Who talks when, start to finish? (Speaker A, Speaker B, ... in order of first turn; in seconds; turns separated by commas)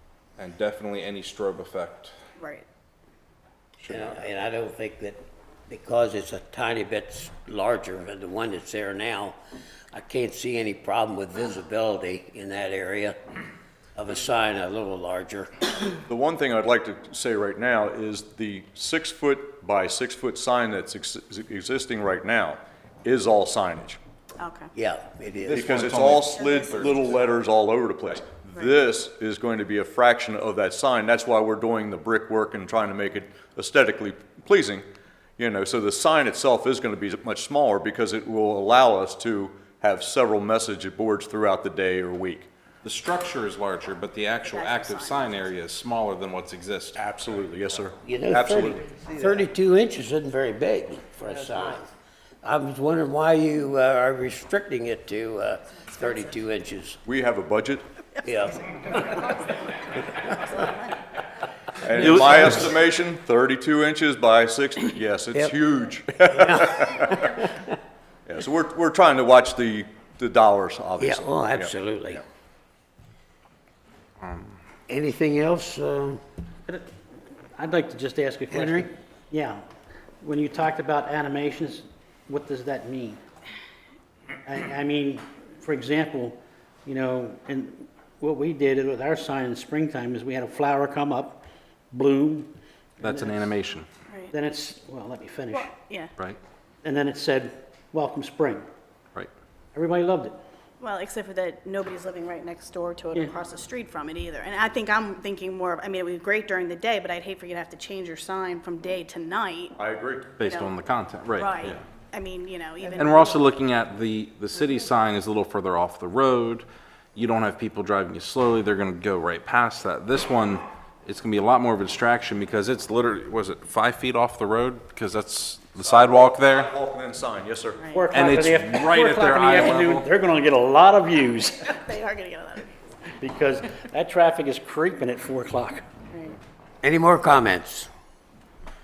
Speaker A: 0.4-2.1, Speaker B: 2.4-2.6, Speaker A: 3.8-4.2, Speaker C: 3.9-9.4, Speaker C: 9.9-13.2, Speaker C: 14.0-15.9, Speaker D: 16.1-24.0, Speaker B: 24.4-24.7, Speaker C: 24.8-25.8, Speaker A: 25.5-27.0, Speaker D: 25.5-34.9, Speaker B: 26.4-27.1, Speaker D: 35.4-42.5, Speaker A: 42.8-47.0, Speaker B: 44.4-45.5, Speaker D: 47.0-48.8, Speaker C: 48.0-51.9, Speaker C: 52.4-57.0, Speaker D: 57.0-57.8, Speaker C: 58.2-58.7, Speaker B: 58.7-61.0, Speaker D: 61.8-67.3, Speaker C: 66.3-67.5, Speaker D: 68.3-71.7, Speaker C: 71.0-72.2, Speaker A: 74.2-74.5, Speaker C: 74.9-76.2, Speaker E: 77.6-79.6, Speaker C: 78.5-78.9, Speaker E: 80.2-83.2, Speaker E: 84.5-93.5, Speaker A: 93.0-93.9, Speaker E: 94.3-95.8, Speaker B: 95.5-96.2, Speaker E: 96.8-98.7, Speaker E: 99.7-100.4, Speaker B: 100.8-109.8, Speaker D: 109.8-110.4, Speaker A: 110.4-111.8, Speaker B: 110.4-110.7, Speaker B: 111.4-113.5, Speaker A: 113.0-126.7, Speaker D: 125.8-127.8, Speaker B: 127.8-128.2, Speaker E: 127.9-131.7, Speaker A: 128.1-130.1, Speaker B: 131.6-132.7, Speaker E: 133.2-135.9, Speaker B: 136.1-136.4, Speaker C: 136.8-137.9